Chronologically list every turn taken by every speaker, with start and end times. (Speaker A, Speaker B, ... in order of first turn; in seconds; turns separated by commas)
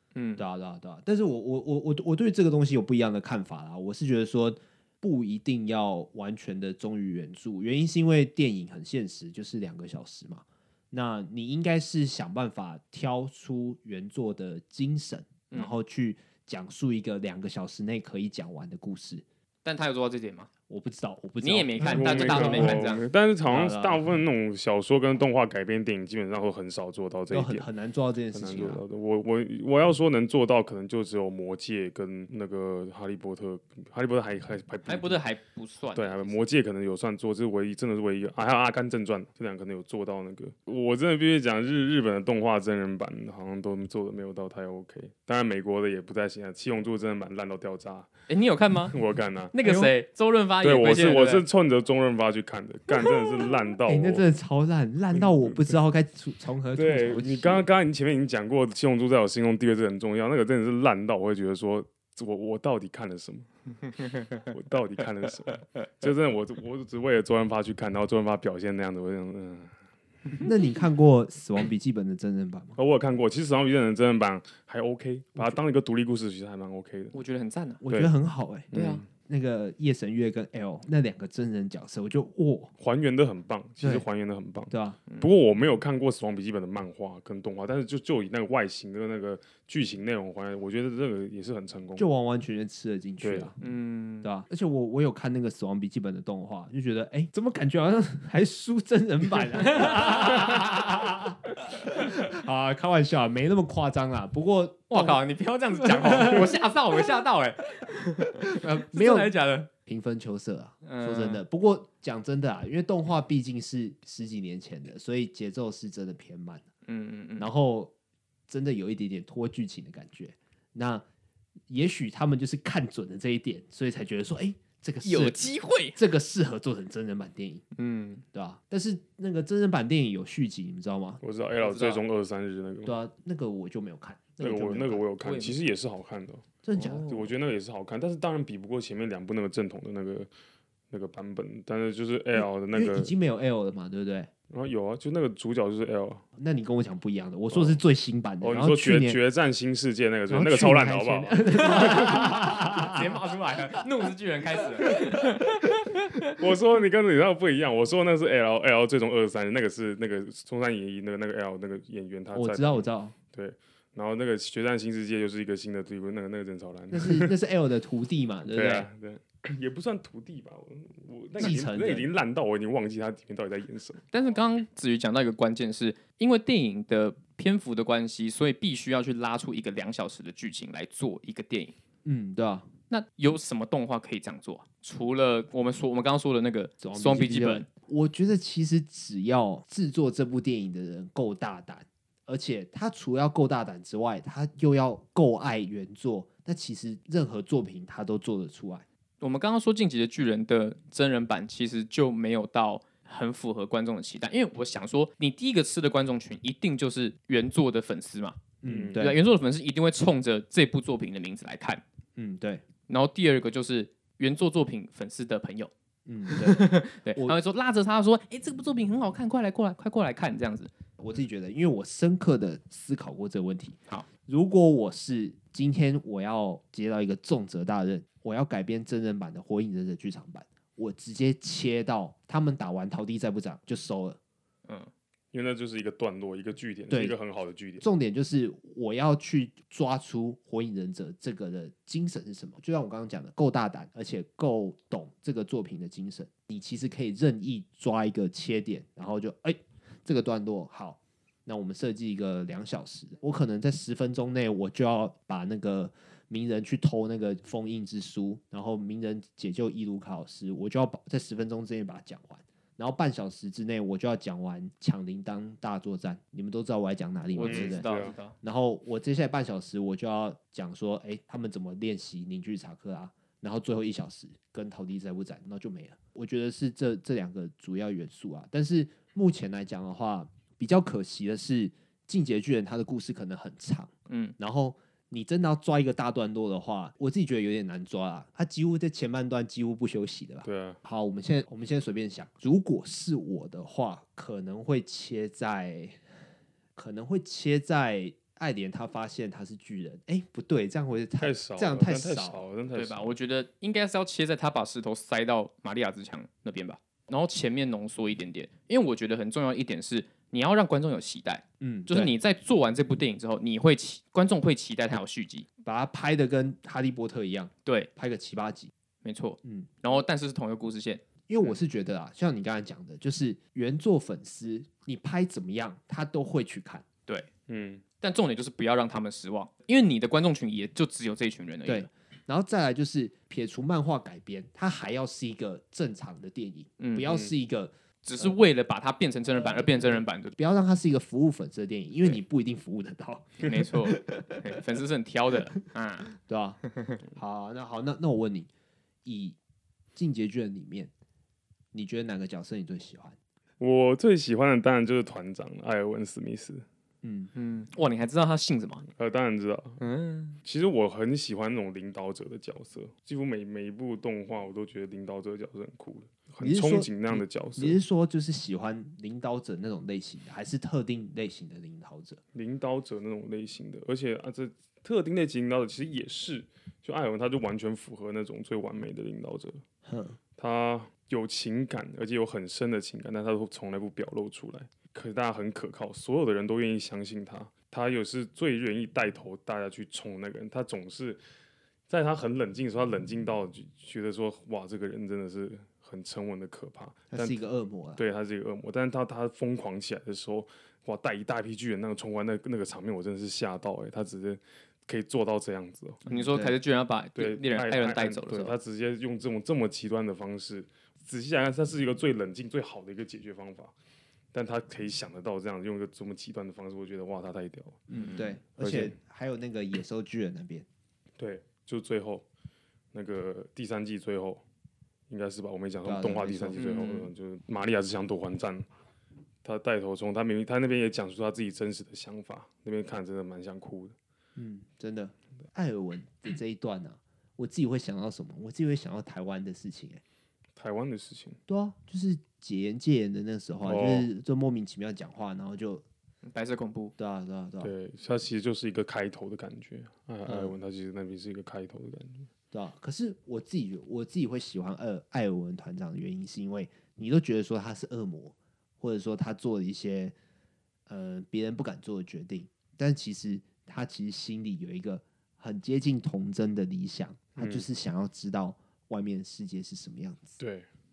Speaker A: 0.1-0.4, Speaker B: 0.4-19.2, Speaker A: 19.6-20.5, Speaker B: 20.7-22.9, Speaker A: 21.4-23.1, Speaker C: 21.8-27.7, Speaker B: 23.5-24.0, Speaker B: 27.3-28.8, Speaker C: 28.3-35.2, Speaker A: 34.9-36.4, Speaker C: 36.0-48.1, Speaker A: 48.3-49.0, Speaker C: 48.9-49.5, Speaker A: 49.5-51.5, Speaker B: 49.6-49.9, Speaker C: 50.6-54.2, Speaker B: 53.9-57.7, Speaker C: 55.1-55.8, Speaker C: 56.8-63.5, Speaker C: 64.4-69.7, Speaker B: 70.4-72.8, Speaker C: 72.8-77.2, Speaker A: 77.1-77.8, Speaker B: 77.8-82.7, Speaker C: 78.7-79.1, Speaker A: 78.7-79.0, Speaker C: 82.8-92.1, Speaker B: 83.8-84.0, Speaker B: 84.7-85.0, Speaker B: 92.0-93.6, Speaker C: 93.2-93.5, Speaker A: 93.6-94.3, Speaker B: 94.2-105.2, Speaker A: 99.7-100.6, Speaker A: 104.9-109.7, Speaker B: 105.8-106.6, Speaker B: 108.5-109.3, Speaker B: 109.9-116.7, Speaker A: 110.8-111.4, Speaker A: 116.9-117.5, Speaker B: 117.4-117.9, Speaker B: 118.5-121.0, Speaker B: 121.7-127.6, Speaker A: 125.0-126.0, Speaker A: 127.8-128.2, Speaker B: 128.3-131.2, Speaker C: 131.2-133.0, Speaker A: 131.6-132.0, Speaker B: 132.8-135.1, Speaker C: 134.4-140.3, Speaker A: 135.2-135.6, Speaker B: 136.6-137.3, Speaker C: 140.9-143.1, Speaker B: 142.4-144.3, Speaker C: 144.5-146.2, Speaker B: 146.4-149.2, Speaker C: 147.5-147.8, Speaker C: 148.4-152.2, Speaker B: 150.3-153.1, Speaker A: 151.6-156.2, Speaker B: 154.9-155.3, Speaker C: 156.3-167.3, Speaker B: 162.3-163.2, Speaker B: 166.9-168.9, Speaker C: 168.5-174.1, Speaker B: 171.4-172.1, Speaker A: 174.1-181.8, Speaker B: 182.1-182.7, Speaker A: 182.9-187.7, Speaker B: 186.8-198.8, Speaker A: 199.2-211.8, Speaker B: 208.6-209.2, Speaker C: 208.7-209.0, Speaker B: 212.2-212.6, Speaker A: 212.9-215.7, Speaker B: 216.1-217.4, Speaker A: 216.2-220.7, Speaker B: 221.0-234.2, Speaker C: 235.3-237.8, Speaker B: 236.9-237.2, Speaker B: 237.8-296.0, Speaker A: 267.3-268.4, Speaker C: 267.4-268.1, Speaker A: 284.1-284.4, Speaker C: 290.4-290.8, Speaker B: 296.8-302.4, Speaker C: 301.2-303.2, Speaker A: 302.7-315.5, Speaker B: 311.6-312.1, Speaker B: 315.6-318.7, Speaker A: 317.6-317.9, Speaker A: 319.0-321.5, Speaker B: 319.4-319.8, Speaker B: 321.3-326.9, Speaker C: 327.5-327.8, Speaker A: 328.0-331.9, Speaker B: 331.6-338.4, Speaker A: 336.8-337.2, Speaker A: 338.0-340.4, Speaker B: 339.4-344.4, Speaker A: 343.4-346.1, Speaker B: 346.2-346.6, Speaker B: 347.1-348.5, Speaker B: 349.1-349.4, Speaker B: 349.9-350.9, Speaker B: 351.7-353.2, Speaker C: 353.6-356.6, Speaker B: 357.0-357.3, Speaker A: 357.3-358.9, Speaker C: 359.0-359.8, Speaker A: 359.8-360.4, Speaker C: 360.4-367.8, Speaker B: 366.4-372.2, Speaker C: 372.3-379.6, Speaker B: 379.9-380.2, Speaker C: 380.4-391.2, Speaker C: 391.9-397.4, Speaker B: 397.1-398.0, Speaker C: 398.0-406.0, Speaker B: 406.1-406.6, Speaker A: 406.1-408.6, Speaker C: 407.2-413.7, Speaker C: 414.3-417.9, Speaker B: 417.9-420.7, Speaker A: 418.0-418.3, Speaker C: 418.6-418.9, Speaker C: 421.2-422.3, Speaker C: 422.9-424.4, Speaker C: 425.1-428.7, Speaker B: 425.9-426.6, Speaker A: 426.6-427.1, Speaker C: 429.4-433.9, Speaker B: 434.4-440.0, Speaker C: 440.6-441.4, Speaker B: 441.5-445.9, Speaker C: 443.6-444.1, Speaker A: 446.3-446.9, Speaker B: 447.0-447.7, Speaker C: 447.6-452.3, Speaker B: 450.2-450.5, Speaker B: 452.5-460.1, Speaker B: 460.9-470.4, Speaker C: 467.4-467.7, Speaker C: 470.4-470.7